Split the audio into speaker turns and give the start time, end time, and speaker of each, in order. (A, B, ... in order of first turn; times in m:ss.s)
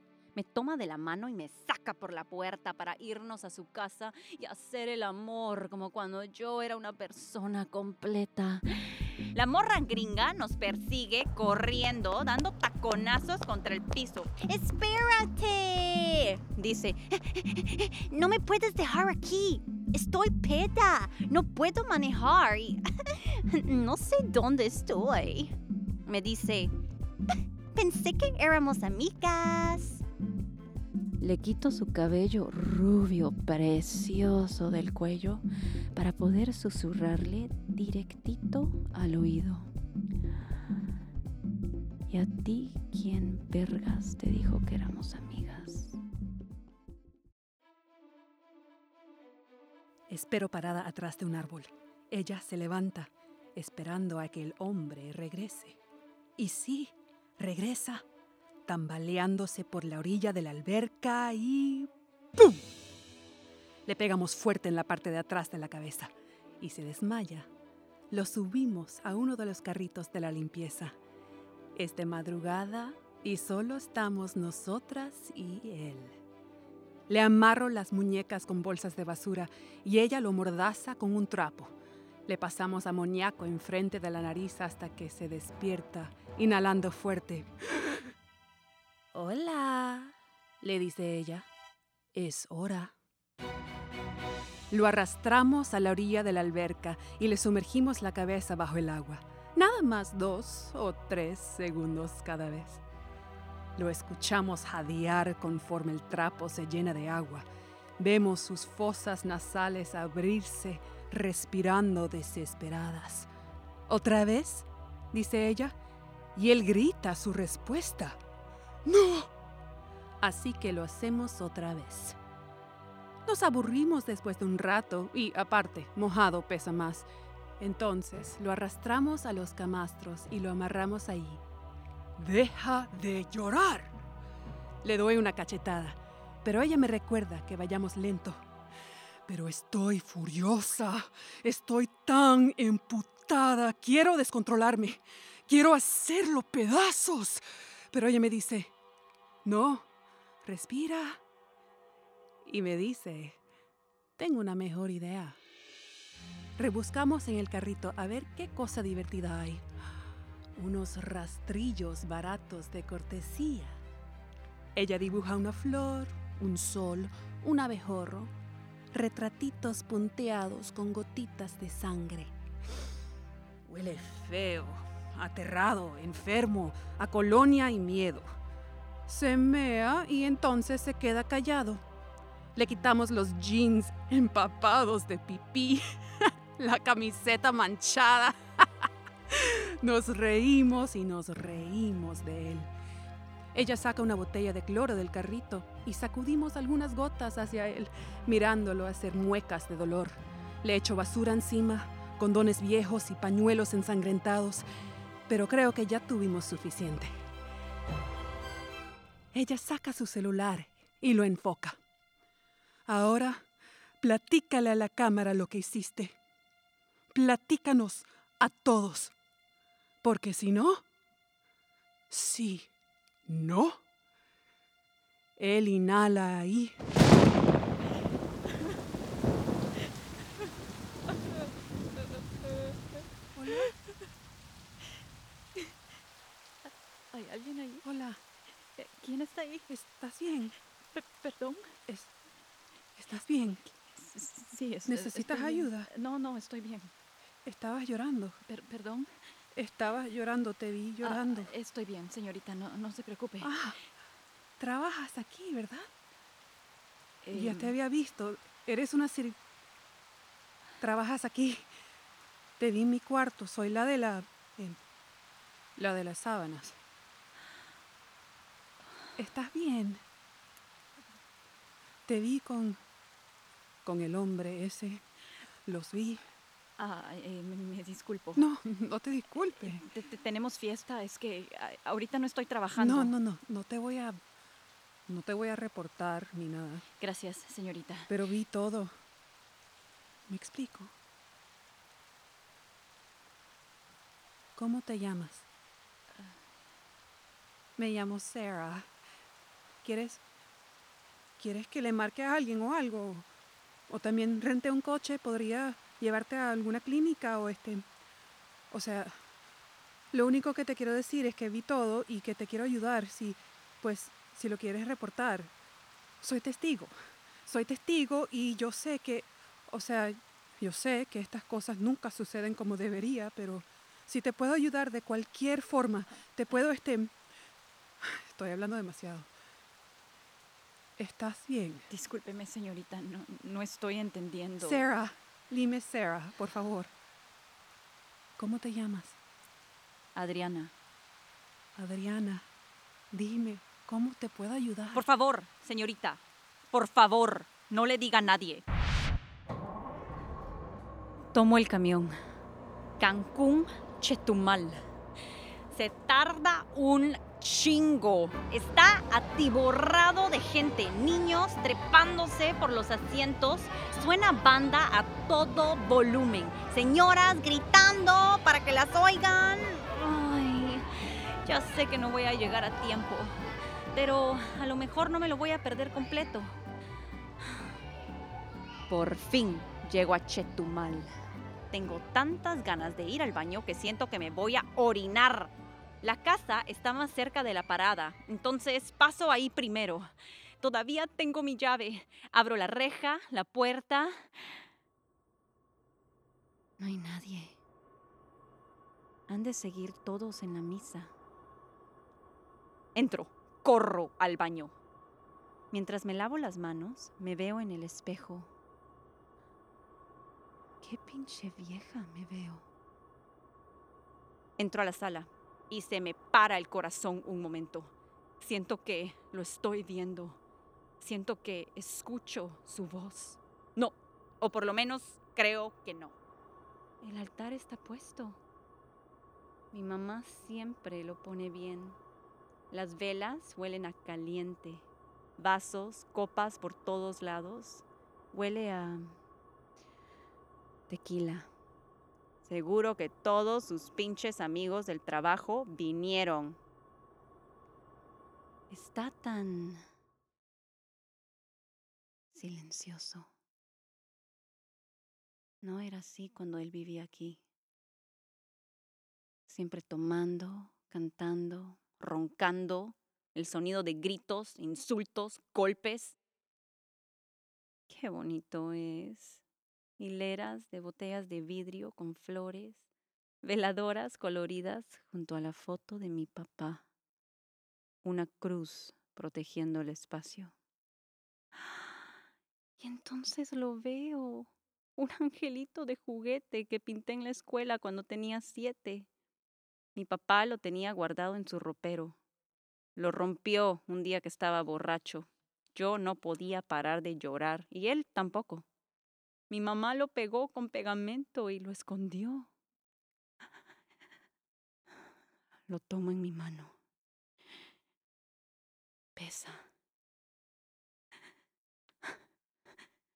0:00.3-0:26.7 A
0:27.7-0:30.0 A
0:31.2-0:35.4 A
0:35.9-0:39.7 A
0:42.1-0:46.0 A
0:50.1-0:55.8 B
0:56.4-0:58.0 B
0:58.7-1:02.7 B
1:03.8-1:07.5 B
1:08.1-1:10.9 B
1:11.8-1:16.2 B
1:17.1-1:21.7 B
1:22.3-1:27.5 B
1:29.1-1:31.5 B
1:32.2-1:32.9 B
1:34.7-1:42.8 B
1:43.8-1:47.5 B
1:48.0-1:53.3 B
1:53.9-1:55.8 B
1:56.4-1:58.2 B
1:58.8-1:59.3 B
2:00.2-2:02.2 B
2:03.2-2:07.1 B
2:07.6-2:11.4 B
2:12.2-2:14.0 B
2:14.8-2:18.4 B
2:19.3-2:28.7 B
2:29.4-2:29.9 B
2:30.4-2:31.2 B
2:32.4-2:33.4 B
2:34.2-2:35.4 B
2:36.6-2:39.6 B
2:40.6-2:43.8 B
2:44.8-2:48.3 B
2:48.9-2:52.3 B
2:53.7-2:58.3 B
2:59.1-3:01.8 B
3:02.6-3:08.7 B
3:09.3-3:12.7 B
3:13.5-3:24.7 B
3:25.3-3:27.1 B
3:29.3-3:31.8 B
3:32.8-3:33.4 B
3:34.0-3:36.2 B
3:37.1-3:39.1 B
3:40.0-3:40.8 B
3:42.1-3:42.7 B
3:43.3-3:43.8 B
3:45.4-3:46.7 B
3:52.4-3:52.7 A
3:53.3-3:53.8 B
3:57.1-3:57.8 A
3:57.8-3:58.2 B
3:58.8-3:59.7 A
3:59.7-4:00.6 B
4:00.9-4:01.8 A
4:03.0-4:03.7 B
4:04.0-4:06.9 A
4:04.9-4:05.9 B
4:07.4-4:08.4 B
4:08.4-4:09.1 A
4:09.6-4:11.5 B
4:11.0-4:13.5 A
4:13.4-4:13.8 B
4:14.6-4:15.9 B
4:17.2-4:17.7 A
4:17.3-4:19.4 B
4:20.8-4:21.7 B
4:22.6-4:24.8 B
4:25.8-4:26.8 B
4:29.2-4:30.0 B
4:32.1-4:32.8 B
4:33.8-4:35.0 B
4:35.7-4:36.2 B
4:36.8-4:38.4 A
4:38.4-4:39.8 B
4:39.7-4:43.2 A
4:42.8-4:44.2 B
4:45.1-4:46.8 B
4:47.0-4:48.1 A
4:48.1-4:48.9 B
4:50.3-4:50.9 B
4:54.6-4:55.5 B
4:57.8-4:58.9 B
4:59.8-5:00.2 B
5:01.4-5:03.3 B
5:03.9-5:07.8 B
5:08.7-5:09.1 B
5:10.1-5:15.5 B
5:16.2-5:16.9 B
5:17.4-5:27.1 B
5:28.0-5:29.3 B
5:31.0-5:31.9 B
5:31.9-5:34.8 A
5:34.6-5:36.9 B
5:38.4-5:39.2 B
5:40.2-5:40.7 A
5:41.8-5:42.4 B
5:43.1-5:45.0 B
5:44.9-5:46.2 A
5:46.7-5:48.6 A
5:51.3-5:52.1 A
5:53.0-5:54.8 A
5:55.7-6:13.3 A
6:13.9-6:16.5 A
6:18.9-6:21.1 A
6:21.7-6:30.1 A
6:30.6-6:34.2 A
6:36.8-6:37.6 A
6:39.3-6:41.1 A
6:42.9-6:44.7 A
6:45.7-6:48.5 A
6:50.8-6:52.7 A
6:54.6-7:00.4 A
7:01.0-7:06.2 A
7:07.0-7:08.4 A
7:09.7-7:12.0 A
7:12.7-7:14.8 A
7:15.4-7:19.2 A
7:20.9-7:21.5 A
7:22.4-7:26.6 A
7:28.7-7:29.8 A
7:32.3-7:33.3 A
7:35.6-7:37.4 A
7:39.5-7:46.2 A
7:47.9-7:49.4 A
7:50.0-7:52.8 A
7:53.4-7:56.8 A
7:58.0-8:00.6 A
8:02.8-8:09.1 A
8:09.9-8:12.2 A
8:13.0-8:18.7 A
8:19.5-8:22.5 A
8:25.7-8:26.7 A
8:29.2-8:29.6 A